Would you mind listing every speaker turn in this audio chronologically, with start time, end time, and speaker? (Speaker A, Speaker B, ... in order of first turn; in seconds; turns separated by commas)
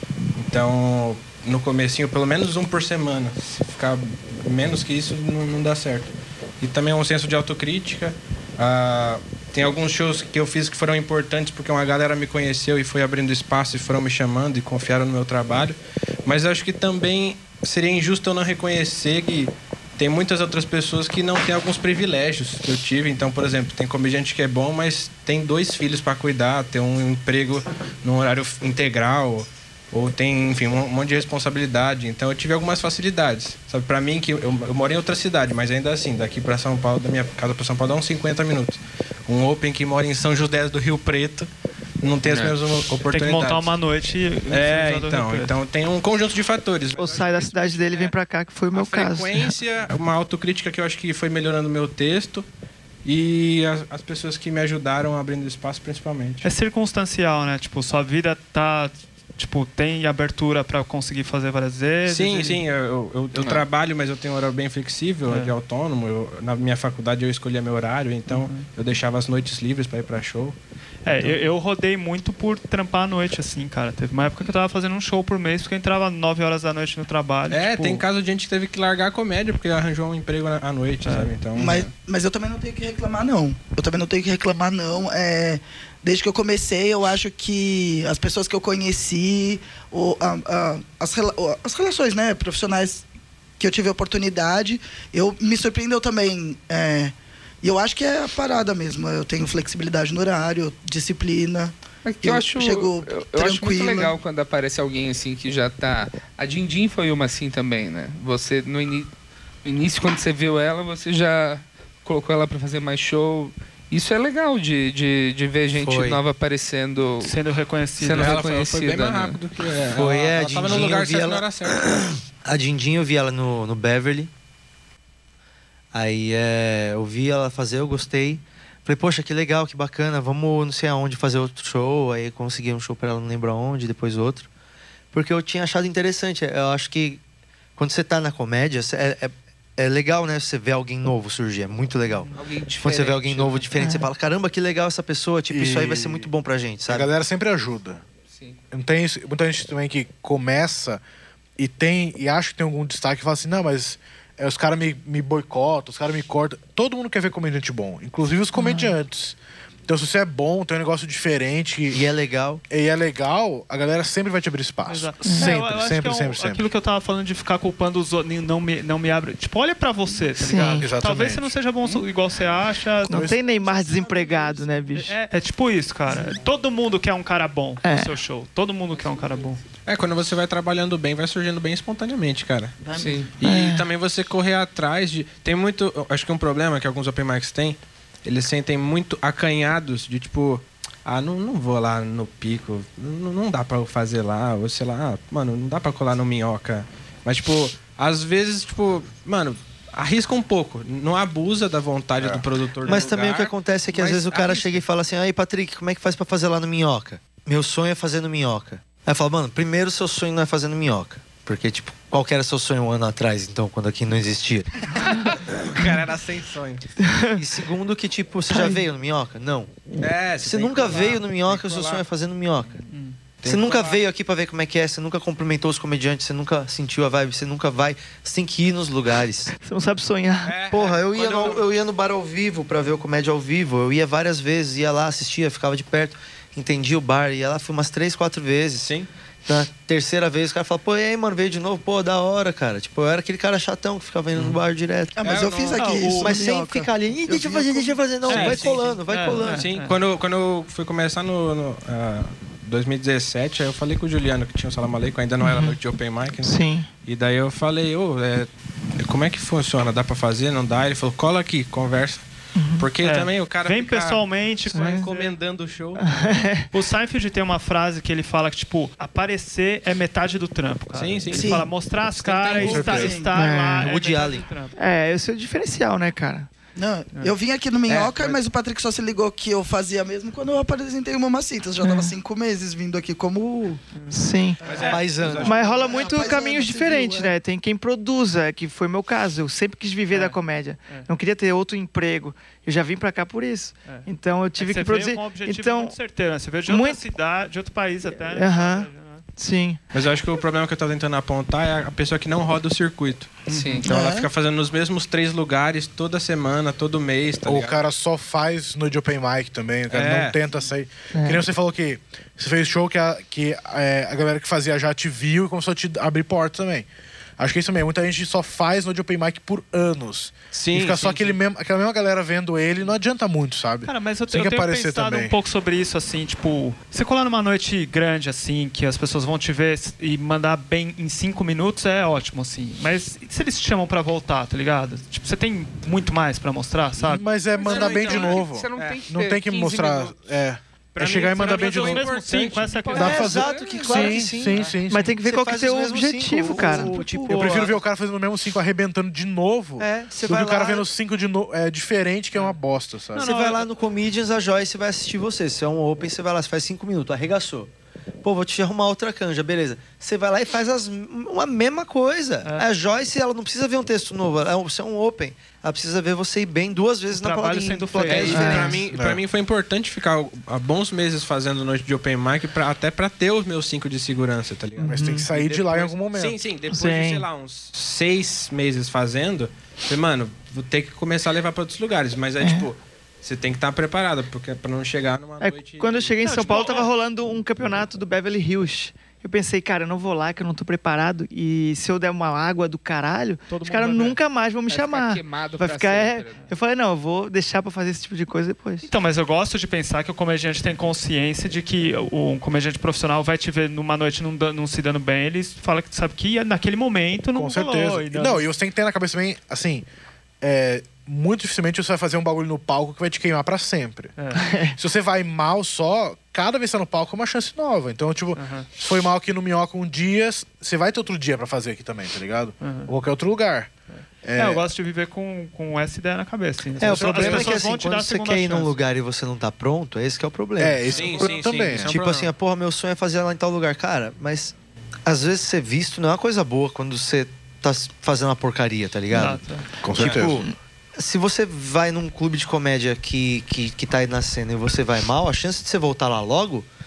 Speaker A: 0.3-41.5, Speaker A: 42.0-43.7, Speaker B: 42.2-42.5, Speaker C: 43.0-45.5, Speaker A: 44.5-48.1, Speaker D: 47.0-49.5, Speaker A: 48.7-52.5, Speaker A: 53.0-56.5, Speaker C: 56.4-62.6, Speaker A: 62.0-70.6, Speaker B: 63.4-63.6, Speaker C: 65.3-65.5, Speaker C: 68.3-68.7, Speaker C: 71.0-78.0, Speaker A: 71.1-71.4, Speaker A: 77.5-81.9, Speaker C: 81.0-81.3, Speaker E: 81.5-93.0, Speaker E: 93.6-104.1, Speaker B: 102.0-109.1, Speaker B: 109.6-117.3, Speaker F: 115.7-116.2, Speaker C: 117.2-118.4, Speaker B: 118.0-119.4, Speaker A: 118.1-121.9, Speaker F: 119.9-124.3, Speaker F: 125.9-134.5, Speaker F: 135.1-137.2, Speaker F: 137.8-147.1, Speaker B: 142.3-143.7, Speaker D: 143.8-144.1, Speaker G: 145.5-146.3, Speaker G: 146.9-148.0, Speaker B: 148.3-148.6, Speaker G: 148.7-151.0, Speaker G: 151.6-162.0, Speaker D: 158.5-158.9, Speaker F: 161.9-162.6, Speaker G: 162.7-166.6, Speaker C: 164.8-173.3, Speaker D: 165.2-165.5, Speaker D: 170.4-170.9, Speaker G: 170.6-171.5, Speaker D: 173.1-175.1, Speaker G: 173.1-173.4, Speaker C: 174.9-179.6, Speaker D: 177.8-178.2, Speaker A: 179.8-182.7, Speaker E: 182.8-183.3, Speaker B: 182.9-183.3, Speaker A: 183.4-204.8, Speaker D: 183.4-183.9, Speaker G: 202.2-202.4, Speaker F: 202.8-214.7, Speaker A: 215.0-216.8, Speaker D: 217.0-217.4, Speaker F: 217.3-219.7, Speaker D: 218.5-218.8, Speaker A: 220.0-222.0, Speaker F: 220.4-222.8, Speaker A: 223.4-224.0, Speaker F: 223.4-229.5, Speaker D: 229.6-230.6, Speaker A: 230.4-231.6, Speaker F: 230.7-238.9, Speaker A: 238.8-239.1, Speaker F: 239.4-245.2, Speaker E: 245.2-248.1, Speaker A: 245.2-245.8, Speaker C: 245.7-246.4, Speaker F: 246.1-249.7, Speaker A: 248.2-249.0, Speaker C: 248.3-250.0, Speaker A: 249.5-262.2, Speaker D: 255.4-255.7, Speaker D: 256.4-256.9, Speaker D: 262.6-262.9, Speaker A: 262.8-266.4, Speaker C: 263.0-265.3, Speaker D: 264.7-265.1, Speaker D: 266.0-266.7, Speaker C: 266.7-274.8, Speaker A: 270.9-273.1, Speaker E: 271.3-271.7, Speaker E: 272.6-273.4, Speaker G: 272.7-273.2, Speaker D: 273.3-273.9, Speaker F: 273.8-274.4, Speaker D: 274.8-276.5, Speaker E: 276.8-283.8, Speaker A: 277.9-278.4, Speaker D: 281.8-282.1, Speaker C: 283.9-284.9, Speaker D: 284.1-295.9, Speaker A: 284.6-286.4, Speaker F: 284.9-285.6, Speaker E: 285.7-287.4, Speaker C: 290.1-291.1, Speaker C: 293.9-299.2, Speaker D: 296.7-297.0, Speaker D: 298.1-299.8, Speaker A: 299.9-307.8, Speaker C: 303.5-303.8, Speaker B: 303.5-303.8, Speaker E: 303.8-304.3, Speaker G: 307.4-316.9, Speaker A: 309.9-310.4, Speaker D: 311.1-311.4, Speaker G: 317.4-325.3, Speaker A: 320.5-321.4, Speaker C: 323.8-337.2, Speaker G: 337.0-342.1, Speaker B: 337.6-340.2, Speaker A: 337.6-339.0, Speaker A: 340.9-343.0, Speaker C: 341.0-343.3, Speaker B: 342.8-344.2, Speaker F: 342.9-347.8, Speaker G: 343.0-345.1, Speaker D: 344.9-347.5, Speaker C: 346.6-347.5, Speaker G: 347.2-353.3, Speaker F: 349.8-350.9, Speaker C: 353.1-353.7, Speaker F: 353.2-357.7, Speaker F: 358.2-368.8, Speaker C: 367.1-368.8, Speaker A: 368.0-386.8, Speaker D: 368.3-368.8, Speaker G: 368.9-369.2, Speaker D: 374.8-375.3, Speaker G: 374.9-376.5, Speaker D: 376.6-377.3, Speaker D: 382.4-382.7, Speaker D: 385.4-398.9, Speaker C: 386.2-386.9, Speaker C: 393.5-394.2, Speaker B: 394.7-396.4, Speaker C: 398.8-408.4, Speaker G: 407.3-409.9, Speaker G: 410.4-414.1, Speaker C: 414.2-414.4, Speaker D: 414.3-414.8, Speaker G: 414.8-423.7, Speaker C: 418.3-418.7, Speaker C: 422.6-422.9, Speaker C: 423.9-428.8, Speaker G: 424.2-424.6, Speaker G: 426.8-427.7, Speaker F: 426.8-434.5, Speaker G: 430.6-431.9, Speaker A: 430.9-432.3, Speaker F: 435.1-439.4, Speaker C: 439.1-439.7, Speaker G: 439.8-440.4, Speaker F: 439.9-446.7